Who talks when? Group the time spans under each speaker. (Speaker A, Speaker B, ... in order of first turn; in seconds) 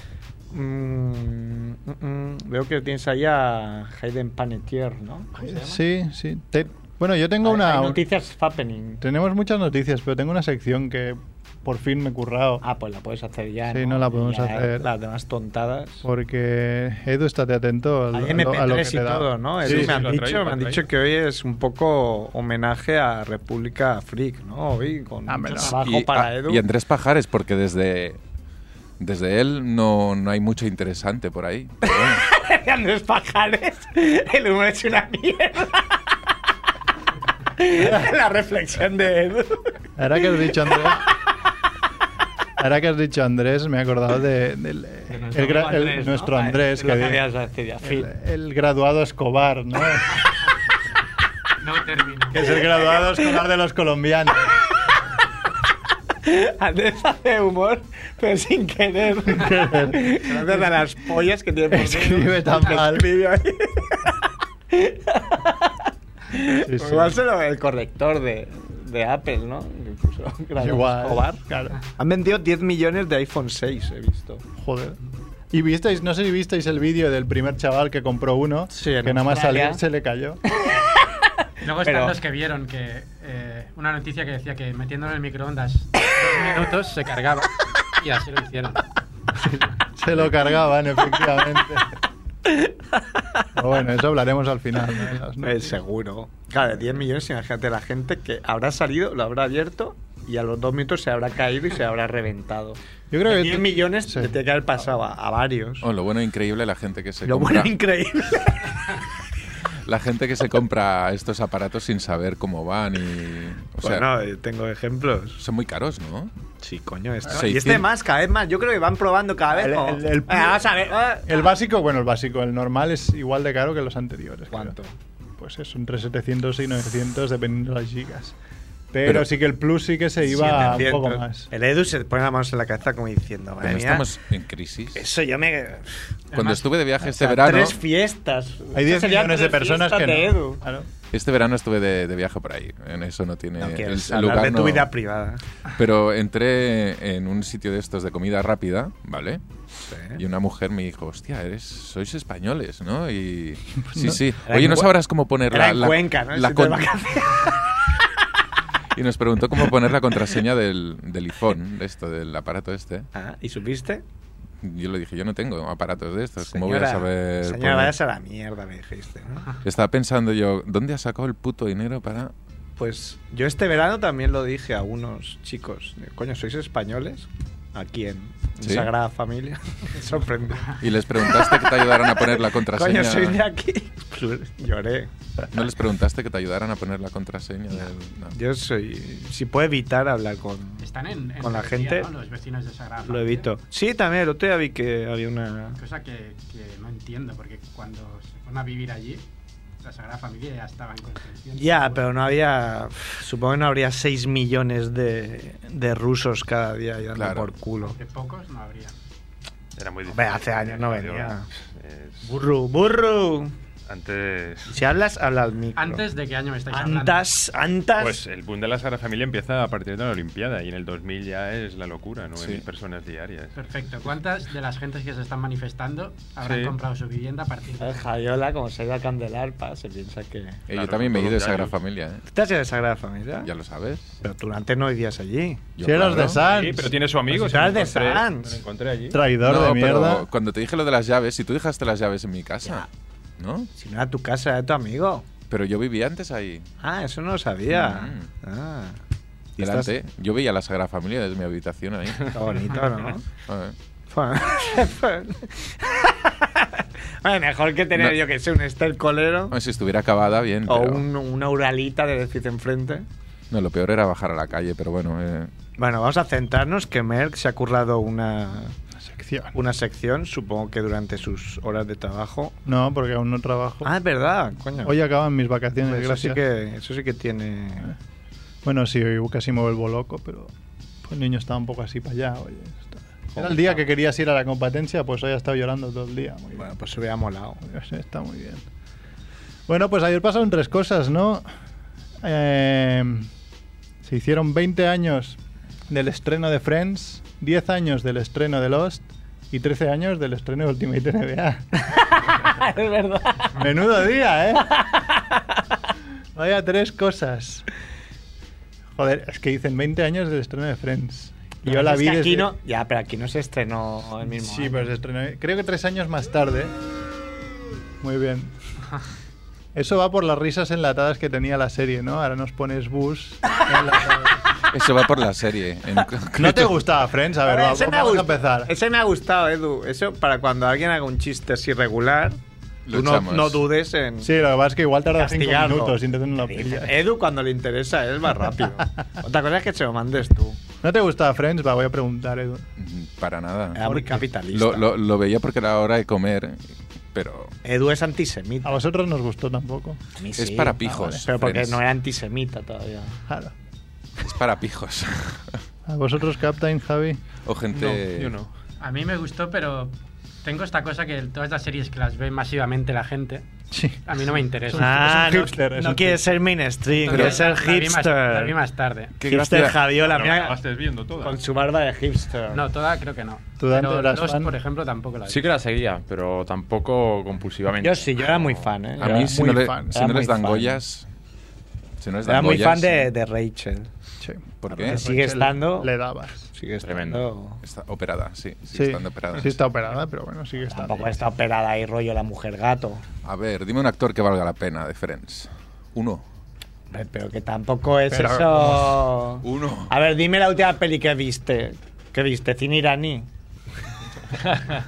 Speaker A: 0.5-5.8, 7.4-9.0, 12.6-16.1, 18.1-26.6, 31.8-36.0, 37.6-39.7, 45.1-48.1, 52.4-53.2, 56.2-71.4, 72.0-74.5, 78.7-79.8, 80.5-81.2, 81.8-82.2, 95.4-105.9, 107.2-108.9, 113.8-115.4, 116.6-121.4, 124.5-125.0, 130.2-134.1, 134.9-136.0, 137.0-140.6, 143.6-145.4, 149.9-150.2, 154.4-154.9, 155.5-157.8, 163.1-164.0, 166.4-169.6, 172.8-180.8, 182.4-185.1, 187.7-190.9, 191.4-192.1, 193.0-195.8, 201.6-208.0, 210.1-211.5, 212.2-213.5, 214.7-216.1, 216.7-218.2, 227.8-230.6, 232.3-233.5, 234.2-235.7, 237.3-238.6, 243.8-245.2, 246.8-249.0, 249.6-249.9, 252.3-253.2, 254.1-259.6, 260.7-263.1, 265.8-268.8, 269.5-272.6, 273.8-275.0, 275.8-277.9, 283.3-283.8, 286.6-287.6, 301.9-303.6, 304.6-305.4, 311.6-314.9, 327.4-332.4, 332.9-334.3, 335.2-340.6, 343.8-344.9, 347.6-348.8, 350.2-353.1, 364.8-368.6, 369.2-370.6, 371.2-372.6, 377.8-380.8, 382.3-383.9, 384.8-385.9, 386.5-387.6, 390.7-393.0, 396.9-403.3
Speaker B: 5.4-8.0, 9.0-12.6, 13.7-14.9, 16.0-20.0, 25.3-25.8, 37.8-38.1, 40.0-41.1, 42.6-47.2, 47.8-50.2, 52.3-54.5, 59.3-60.8, 61.7-63.1, 66.6-67.2, 70.6-71.8, 74.6-75.0, 75.5-80.4, 89.4-91.9, 93.5-95.8, 103.1-104.4, 119.5-120.7, 121.3-124.8, 125.4-128.3, 128.9-131.5, 138.7-140.9, 153.8-154.2, 235.8-236.9, 239.1-240.3, 269.0-269.5, 272.6-273.9, 274.8-276.4, 278.6-280.5, 281.0-286.7, 287.6-288.7, 289.7-291.5, 292.2-293.3, 294.0-301.7, 303.6-304.8, 306.4-307.7, 309.0-312.5, 314.2-316.7, 318.0-318.5, 319.8-324.4, 326.4-328.7, 334.2-336.9, 340.8-342.7, 348.6-350.0, 350.8-351.3, 353.3-353.5, 355.9-357.2, 363.7-364.0, 364.7-366.2, 373.6-374.5, 379.1-380.0, 384.2-386.5, 388.7-391.2, 398.1-398.8
Speaker C: 19.6-20.9, 209.8-212.3, 213.9-214.8, 218.0-224.1, 226.4-226.8, 230.7-231.8, 236.4-239.1, 357.7-358.5, 370.0-371.4
Speaker D: 25.7-28.2, 29.0-32.2, 105.8-107.7, 109.9-114.1, 115.4-116.3, 117.3-117.9, 130.4-130.8, 133.6-135.0, 136.3-137.8, 141.1-144.9, 145.8-149.4, 150.2-156.9, 158.9-163.1, 164.6-167.9, 169.6-172.3, 178.6-178.9, 180.8-183.4, 185.5-188.4, 207.2-207.5, 222.4-222.6, 230.7-232.2, 233.4-234.1, 235.8-236.4, 239.4-242.9, 243.4-243.7, 245.5-246.7, 247.7-248.3, 249.6-252.4, 253.5-253.8, 259.5-261.1, 263.5-265.5, 324.7-326.8, 332.9-333.6, 342.8-346.6, 347.1-347.5, 350.4-351.8, 354.2-355.5, 357.4-358.4, 369.2-369.8, 379.0-381.1, 382.0-383.1, 384.6-385.0, 387.6-389.6, 393.2-396.2, 399.4-399.9
Speaker E: 51.6-52.4, 81.6-88.9, 136.3-136.6, 190.8-193.5, 195.8-199.2, 199.8-202.1, 207.8-209.0, 215.8-217.2, 223.6-228.1, 358.8-363.4, 364.1-365.2, 366.9-369.1, 372.5-375.5
Speaker F: 375.3-378.6, 386.9-387.2